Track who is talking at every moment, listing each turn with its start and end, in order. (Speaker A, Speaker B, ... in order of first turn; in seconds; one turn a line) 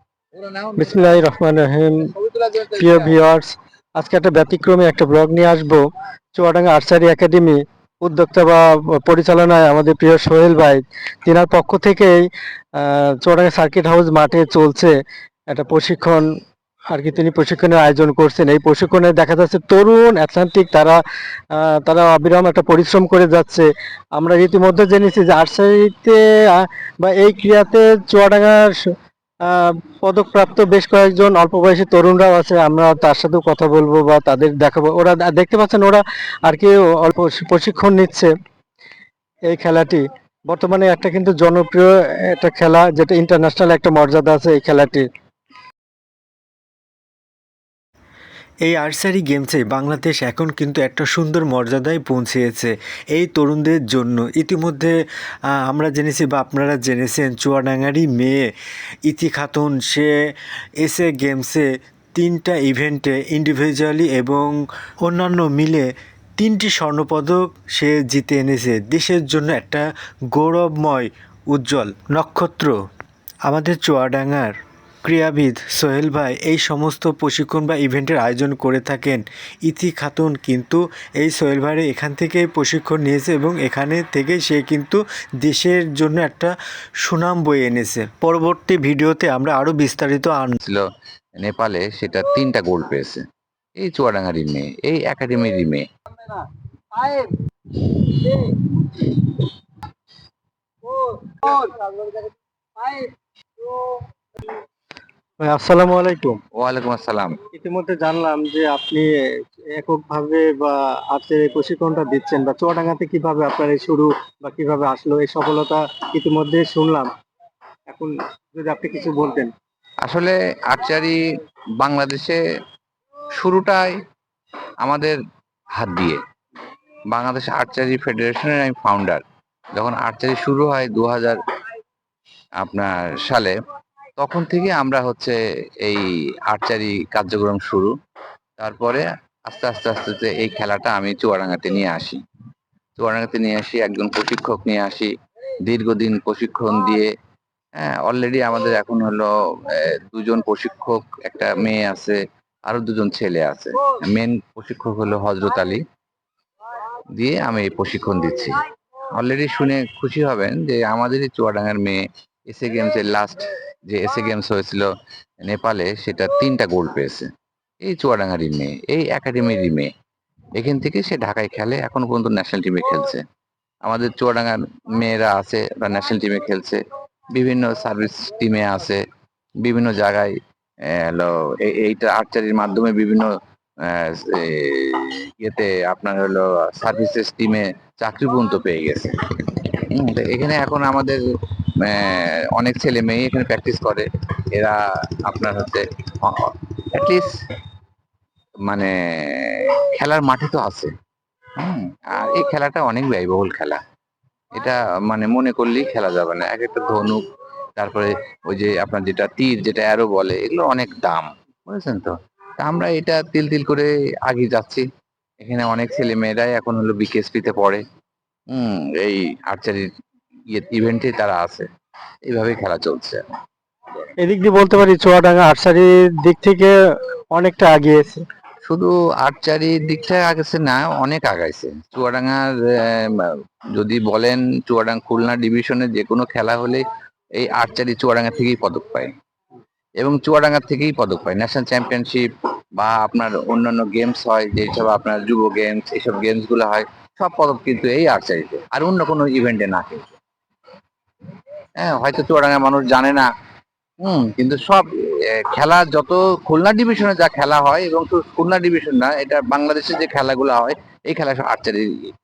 Speaker A: 0.3-1.1
Speaker B: 0.8-2.0
Speaker B: 2.7-5.8
Speaker B: 6.4-12.2
Speaker B: 12.8-14.9
Speaker B: 15.5-16.2
Speaker B: 16.9-21.0
Speaker B: 21.5-23.7
Speaker B: 24.2-28.7
Speaker B: 29.5-38.3
Speaker B: 39.5-41.9
Speaker B: 42.4-45.0
Speaker C: 48.6-55.0
Speaker C: 55.6-58.5
Speaker C: 59.1-60.1
Speaker C: 60.8-72.8
Speaker C: 73.5-90.6
Speaker A: 90.6-90.9
Speaker A: 91.4-93.2
Speaker A: 93.8-95.8
Speaker B: 97.0-97.3
Speaker B: 100.9-102.2
Speaker B: 102.8-103.1
Speaker B: 105.4-106.4
Speaker A: 106.6-107.4
Speaker B: 107.5-109.0
Speaker B: 109.8-117.1
Speaker B: 117.9-119.5
Speaker A: 120.0-121.2
Speaker A: 121.8-122.4
Speaker A: 123.4-123.9
Speaker A: 124.8-125.2
Speaker A: 125.8-126.2
Speaker A: 127.1-129.2
Speaker A: 129.8-131.4
Speaker A: 132.6-133.5
Speaker A: 134.2-137.9
Speaker A: 138.6-142.2
Speaker A: 143.0-145.1
Speaker A: 145.7-147.1
Speaker A: 147.8-155.8
Speaker A: 157.1-164.9
Speaker A: 165.4-167.3
Speaker A: 167.8-169.9
Speaker A: 170.6-173.2
Speaker A: 173.8-176.8
Speaker A: 177.3-179.0
Speaker A: 179.6-180.3
Speaker A: 180.9-183.3
Speaker A: 183.8-191.2
Speaker A: 191.8-194.8
Speaker A: 195.3-197.3
Speaker A: 198.7-200.9
Speaker A: 201.6-203.8
Speaker A: 204.5-207.2
Speaker A: 207.8-214.9
Speaker A: 215.4-217.8
Speaker A: 218.5-219.9
Speaker A: 220.5-221.7
Speaker A: 222.3-223.2
Speaker B: 224.2-226.8
Speaker B: 227.3-228.2
Speaker A: 228.7-236.8
Speaker A: 237.4-239.1
Speaker A: 240.0-250.1
Speaker A: 251.8-253.3
Speaker A: 254.0-261.9